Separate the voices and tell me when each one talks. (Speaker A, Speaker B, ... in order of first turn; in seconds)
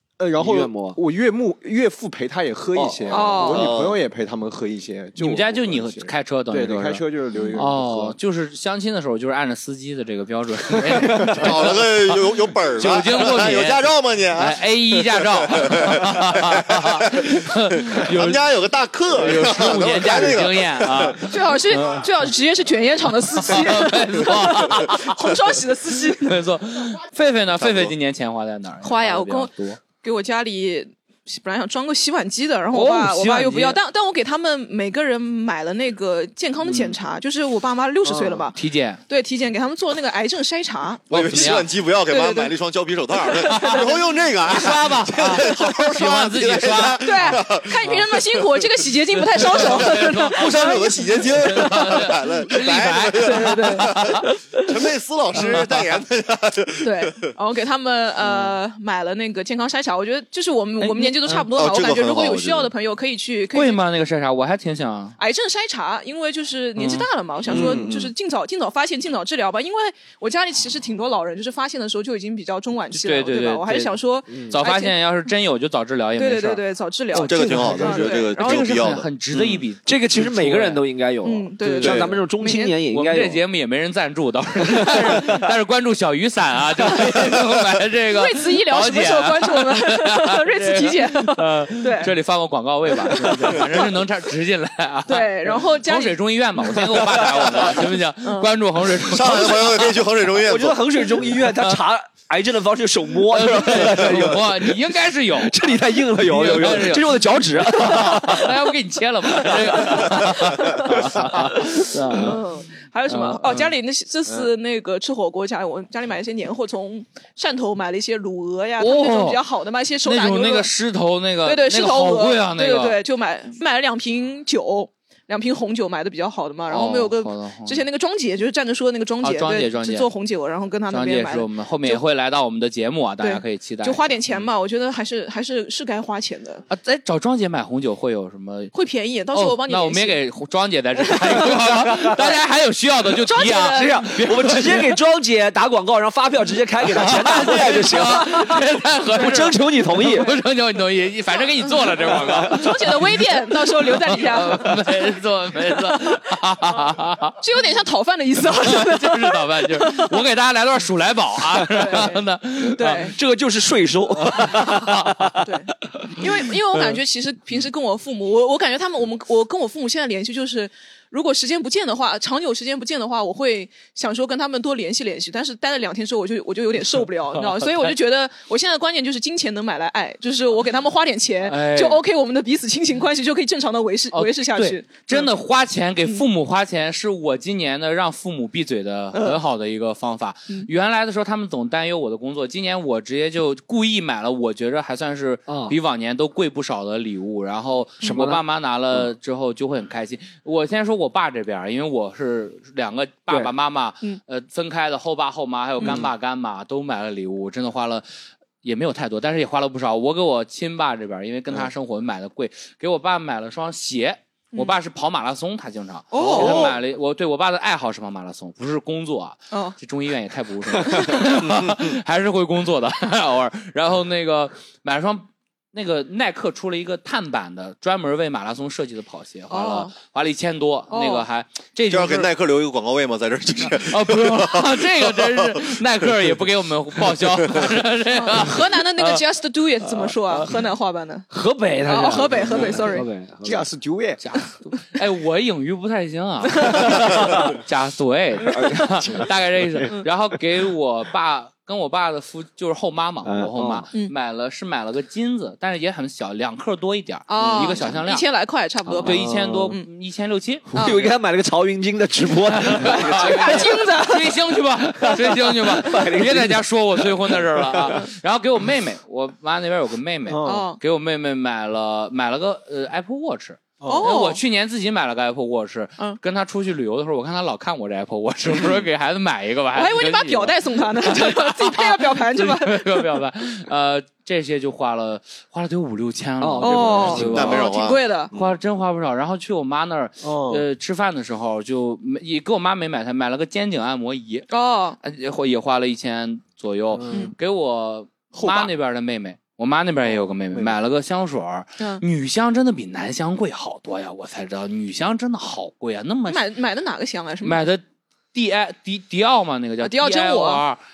Speaker A: 0.2-8.2, 243.4-244.2, 259.0-259.7, 270.3-270.6, 273.8-274.1, 290.2-290.7, 296.9-297.3, 298.3-298.7, 300.1-300.8
Speaker B: 0.4-1.0, 2.7-3.3, 32.7-33.8, 74.3-74.5, 79.8-83.4, 84.6-85.5, 96.8-97.8, 100.3-108.6, 109.3-110.3, 141.9-142.1, 143.6-150.3, 152.0-152.8, 162.9-166.3, 195.5-195.8, 198.0-198.4, 216.2-216.7, 241.3-243.7, 248.5-248.8, 253.3-253.8, 257.4-257.9, 260.7-263.7, 264.9-268.0, 286.4-287.5
Speaker C: 3.1-3.7, 21.2-26.4, 28.8-38.6, 39.1-42.5, 43.2-44.1, 47.0-52.1, 53.2-54.8, 56.8-63.8, 65.2-75.0, 76.2-78.6, 81.2-82.8, 88.1-92.1, 93.0-93.8, 95.1-96.2, 98.2-98.5, 109.8-111.0, 111.6-120.7, 121.4-132.0, 133.2-136.6, 138.7-140.2, 141.0-141.6, 143.2-144.3, 147.6-148.4, 152.1-154.8, 155.9-156.2, 157.4-160.2, 161.6-162.2, 162.7-163.2, 165.4-185.3, 216.1-216.8, 219.5-219.8, 220.8-221.2, 229.5-229.9, 230.9-231.2, 238.1-241.3, 241.8-243.1, 246.5-247.1, 257.3-259.9, 260.7-261.1, 262.8-264.4, 270.4-270.8, 273.8-274.4, 279.7-283.2, 286.6-288.3, 294.5-295.0, 306.3-307.6, 309.8-310.6
Speaker D: 3.4-4.0, 11.2-21.3, 27.6-27.9, 41.1-48.8, 49.4-57.3, 61.5-62.7, 67.5-68.1, 77.2-79.6, 99.0-100.8, 221.4-221.9, 231.9-235.8, 237.4-237.7, 287.1-288.6
Speaker E: 5.2-12.1, 12.8-18.5, 19.1-22.0, 23.4-25.4, 26.2-29.8, 38.5-39.0, 41.1-41.7, 43.4-43.9, 44.4-48.0, 49.2-54.3, 55.4-55.8, 60.8-61.5, 63.5-65.2, 66.8-67.8, 72.9-74.0, 74.5-76.6, 77.1-80.8, 81.6-82.1, 82.9-100.0, 101.4-101.8, 103.3-112.4, 113.1-113.7, 118.8-119.4, 120.0-123.0, 126.7-127.8, 129.2-130.1, 130.9-134.4, 136.7-138.7, 139.3-144.9, 146.9-157.4, 158.6-163.2, 164.3-165.3, 177.3-177.9, 181.5-182.0, 184.1-208.0, 208.6-232.3, 233.7-239.2, 240.0-240.5, 244.2-258.3, 259.0-260.7, 262.5-287.7, 288.3-294.5, 295.0-306.4, 307.4-310.8